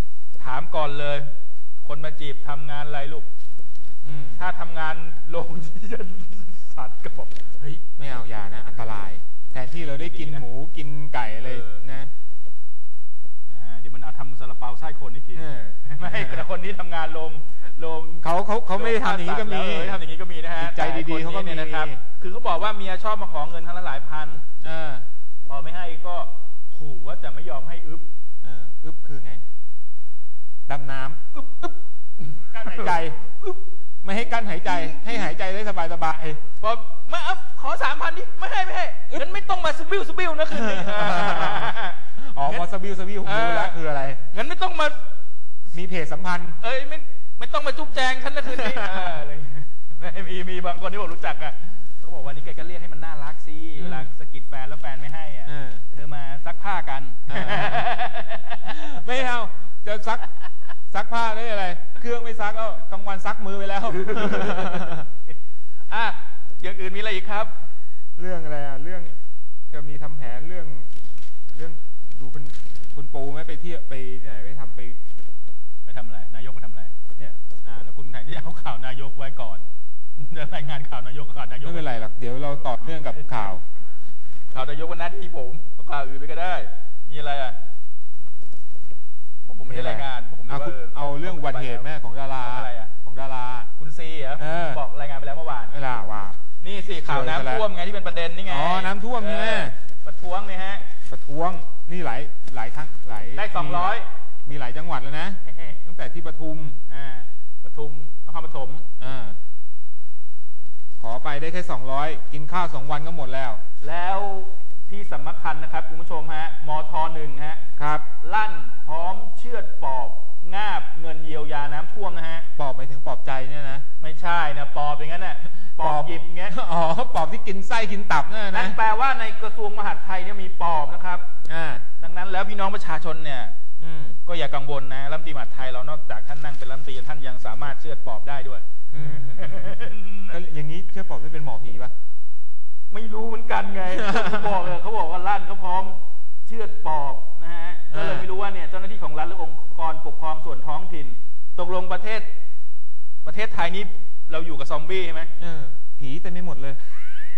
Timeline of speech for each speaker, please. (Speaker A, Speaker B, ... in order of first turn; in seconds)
Speaker A: 0.4-3.3, 4.3-7.8, 9.9-10.4, 11.4-11.9, 13.5-24.4, 25.4-28.1, 31.4-33.6, 34.6-35.3, 36.6-42.7, 43.2-45.0, 46.6-58.8, 63.9-65.0, 65.9-67.5, 75.8-76.9, 77.6-81.9, 83.1-83.3, 84.5-87.6, 89.5-92.9, 93.8-95.7, 96.6-100.9, 103.3-104.1, 106.9-108.9, 113.8-117.6, 118.2-122.5, 124.0-126.5, 128.5-131.3, 132.0-133.6, 134.2-140.4, 142.9-152.3, 153.2-155.3
Speaker B: 4.0-4.4, 8.0-12.1, 15.3-16.5, 18.2-20.0, 20.6-22.0, 24.6-25.1, 28.4-29.4, 30.7-31.4, 32.5-33.2, 34.0-36.4, 40.5-44.3, 45.7-46.6, 48.5-49.2, 53.8-54.1, 55.5-55.8, 57.3-57.9, 58.6-60.3, 60.9-65.1, 68.2-69.2, 69.7-70.9, 71.5-75.0, 81.6-83.6, 89.6-93.7, 94.4-94.8, 95.7-96.4, 97.0-97.7, 98.4-99.7, 101.1-106.8, 109.0-109.4, 111.0-113.6, 117.8-118.1, 122.6-123.8, 125.8-128.8, 131.5-131.8, 133.8-134.2, 138.9-141.9, 143.9-144.7, 147.9-148.3, 155.4-156.9